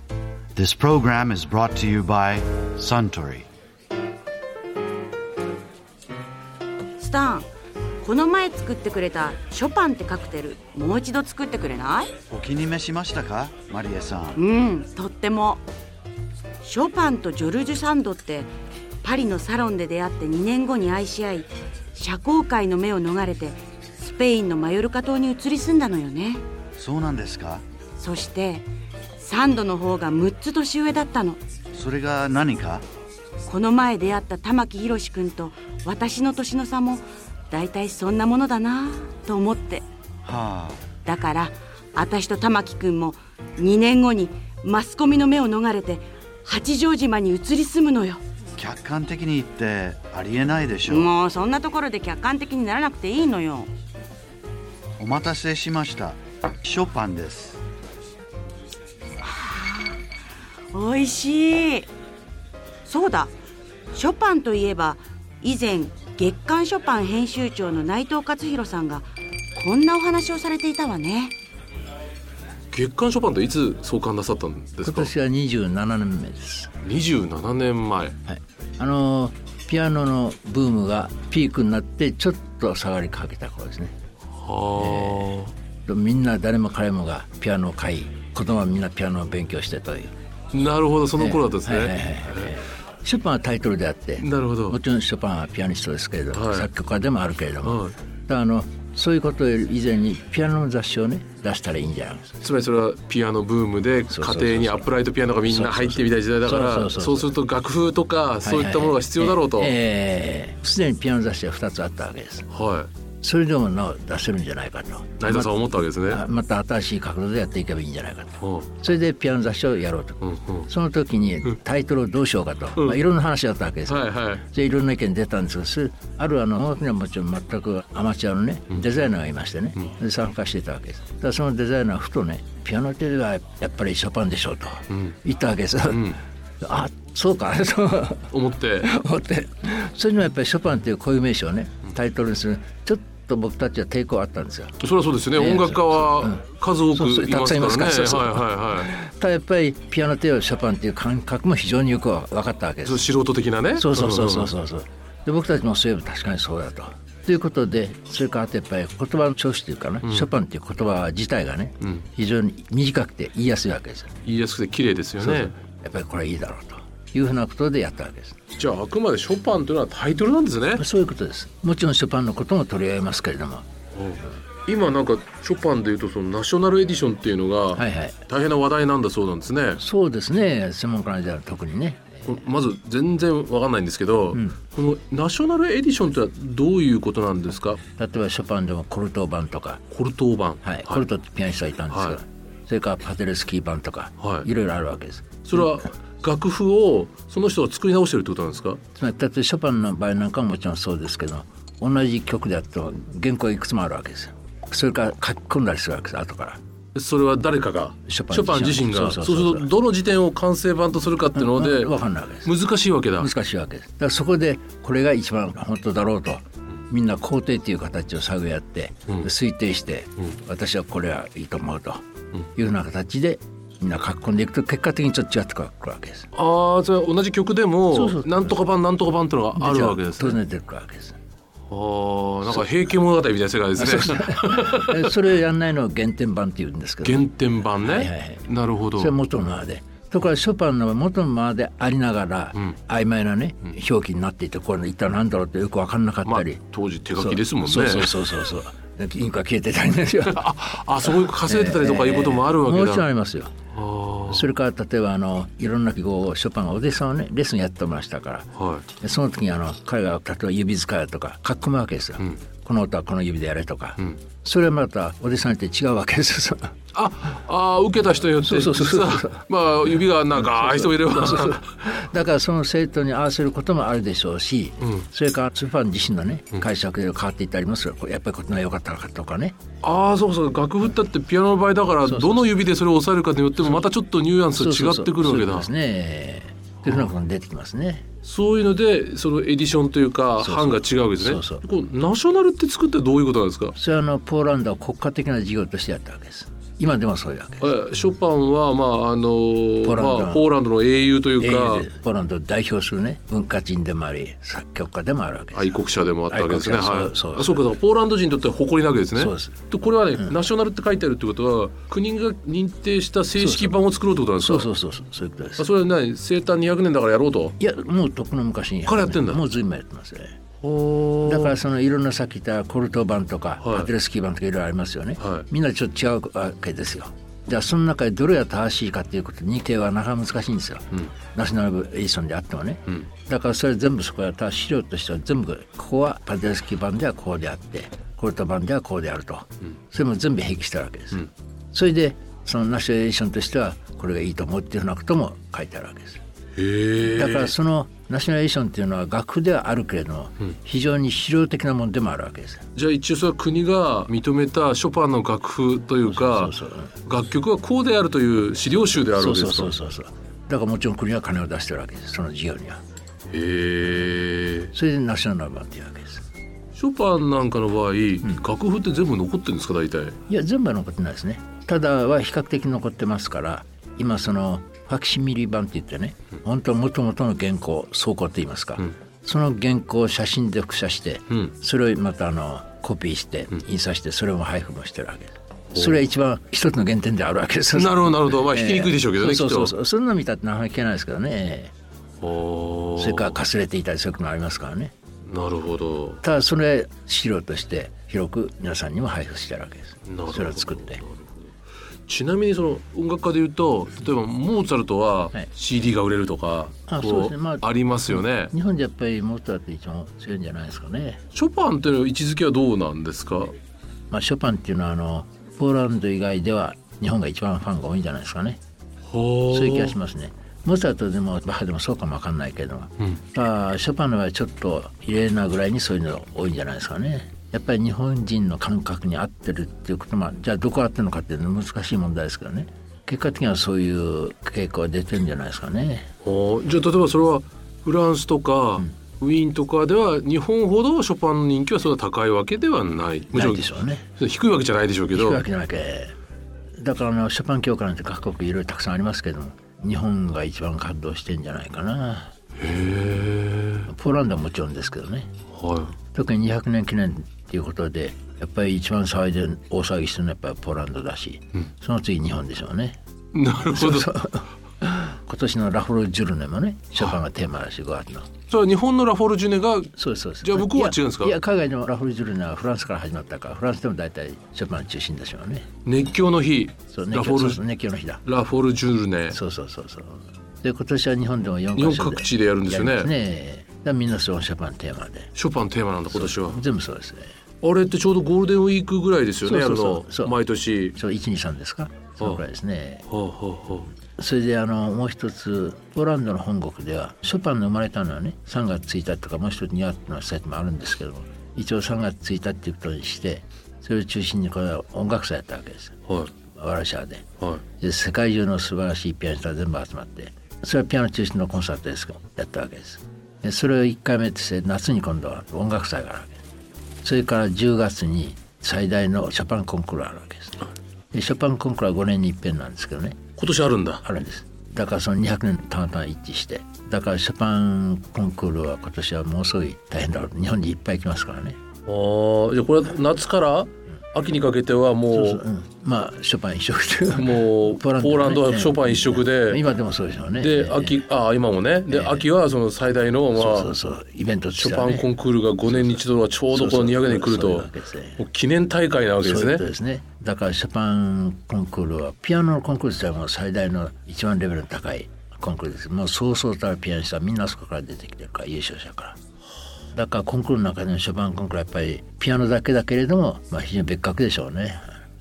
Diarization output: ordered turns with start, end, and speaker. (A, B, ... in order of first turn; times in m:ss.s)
0:00.6-0:03.5 A
0:07.0-0:07.5 B
0:08.0-0:12.1 B
0:12.3-0:14.4 A
0:14.3-0:15.6 B
0:16.6-0:26.4 B
0:26.8-0:27.6 A
0:28.0-0:28.7 B
0:29.2-0:31.4 B
0:31.7-0:32.8 A
0:33.4-0:39.8 B
0:40.2-0:40.8 A
0:41.0-0:48.2 B
0:48.6-0:51.1 A
0:50.9-0:53.7 B
0:55.0-0:57.6 A
0:59.2-1:00.0 B
1:00.7-1:01.9 B
1:02.8-1:03.3 B
1:03.9-1:11.3 B
1:12.7-1:15.1 C
1:14.8-1:16.7 D
1:16.8-1:18.1 C
1:18.2-1:23.9 D
1:24.4-1:25.5 C
1:24.7-1:30.1 D
1:30.5-1:32.5 C
1:31.2-1:42.4 D
1:34.2-1:34.8 C
1:36.3-1:36.7 C
1:37.6-1:37.9 C
1:42.4-1:49.7 C
1:44.1-1:44.9 D
1:45.4-1:47.3 D
1:48.4-1:52.5 D
1:52.5-1:52.9 C
1:53.2-1:55.5 D
1:55.2-1:56.2 C
1:56.1-2:24.8 D
1:58.4-1:58.7 C
2:00.2-2:00.7 C
2:03.9-2:04.4 C
2:15.9-2:16.2 C
2:18.3-2:18.9 C
2:24.8-2:28.9 C
2:25.3-2:33.1 D
2:32.8-2:34.5 C
2:33.8-2:44.2 D
2:40.0-2:40.3 C
2:44.2-2:45.5 C
2:45.2-2:48.4 D
2:48.6-2:50.8 C
2:50.7-2:53.7 D
2:54.0-2:59.8 C
2:57.7-2:58.2 D
2:59.8-3:02.4 D
3:02.3-3:07.8 C
3:04.3-3:04.6 D
3:08.0-3:09.8 D
3:09.9-3:11.0 C
3:10.6-3:15.7 D
3:11.9-3:12.2 C
3:14.2-3:14.5 C
3:15.4-3:18.8 C
3:18.9-3:26.6 D
3:27.0-3:31.9 C
3:28.0-3:29.7 D
3:31.3-3:32.5 D
3:32.4-3:33.3 C
3:33.2-3:42.0 D
3:42.5-3:46.3 D
3:46.3-3:50.4 C
3:47.9-3:48.6 D
3:49.5-3:51.2 D
3:51.7-3:55.1 C
3:53.8-3:57.3 D
3:57.0-3:59.2 C
3:57.8-4:06.6 D
4:06.2-4:08.2 C
4:07.2-4:10.4 D
4:10.2-4:13.0 C
4:11.1-4:13.6 D
4:13.7-4:14.5 C
4:14.3-4:18.5 D
4:18.6-4:18.8 C
4:19.0-4:26.8 D
4:26.9-4:31.7 C
4:28.4-4:29.4 D
4:30.4-4:39.6 D
4:39.8-4:45.7 C
4:42.0-4:42.5 D
4:44.5-4:48.0 D
4:46.8-4:47.1 C
4:48.2-4:53.7 C
4:50.4-4:51.6 D
4:53.8-4:57.7 D
4:57.6-5:01.9 C
4:59.8-5:00.5 D
5:01.4-5:05.8 D
5:05.5-5:14.7 C
5:06.3-5:07.6 D
5:09.1-5:09.6 D
5:13.4-5:13.8 D
5:14.4-5:15.7 D
5:15.6-5:17.5 C
5:17.6-5:20.4 D
5:18.9-5:19.4 C
5:20.6-5:21.6 C
5:21.2-5:46.2 D
5:23.6-5:23.9 C
5:46.6-5:47.5 C
5:47.0-5:52.6 D
5:52.7-5:56.5 C
5:56.1-5:56.9 D
5:57.0-5:59.7 C
5:59.1-6:02.8 D
6:03.3-6:04.7 C
6:04.7-6:06.2 D
6:06.8-6:10.2 C
6:10.3-6:31.7 D
6:25.7-6:26.1 C
6:27.7-6:29.7 C
6:32.2-6:33.4 C
6:33.0-6:34.9 D
6:35.3-6:36.2 C
6:36.2-6:41.0 D
6:40.1-6:41.3 C
6:42.1-6:48.5 C
6:46.9-6:51.2 D
6:51.3-6:53.5 C
6:54.1-6:58.6 D
6:59.1-6:59.9 C
6:59.5-7:16.1 D
7:16.2-7:23.7 C
7:23.3-7:24.0 D
7:24.2-7:25.4 C
7:25.1-7:26.2 D
7:26.8-7:32.3 D
7:32.6-7:33.9 C
7:33.9-7:35.3 D
7:35.5-7:35.9 C
7:36.1-7:43.0 D
7:43.3-7:44.1 C
7:43.7-7:48.3 D
7:48.5-7:51.4 C
7:50.0-7:55.7 D
7:55.8-7:57.6 C
7:56.9-7:58.2 D
7:58.2-7:59.4 C
7:59.3-8:05.3 D
8:01.8-8:03.1 C
8:05.3-8:06.6 C
8:06.1-8:07.3 D
8:07.6-8:11.0 C
8:09.4-8:10.3 D
8:10.9-8:13.0 D
8:13.1-8:13.9 C
8:14.1-8:26.0 D
8:26.5-8:27.2 D
8:27.8-8:36.4 D
8:37.0-8:43.2 D
8:43.4-8:44.0 C
8:44.0-8:51.6 D
8:51.8-8:55.4 C
8:55.1-9:01.0 D
8:57.1-8:59.6 C
9:00.4-9:03.7 C
9:01.9-9:02.3 D
9:03.4-9:05.1 D
9:04.6-9:09.6 C
9:05.7-9:06.0 D
9:06.5-9:08.2 D
9:09.2-9:19.2 D
9:19.9-9:25.0 D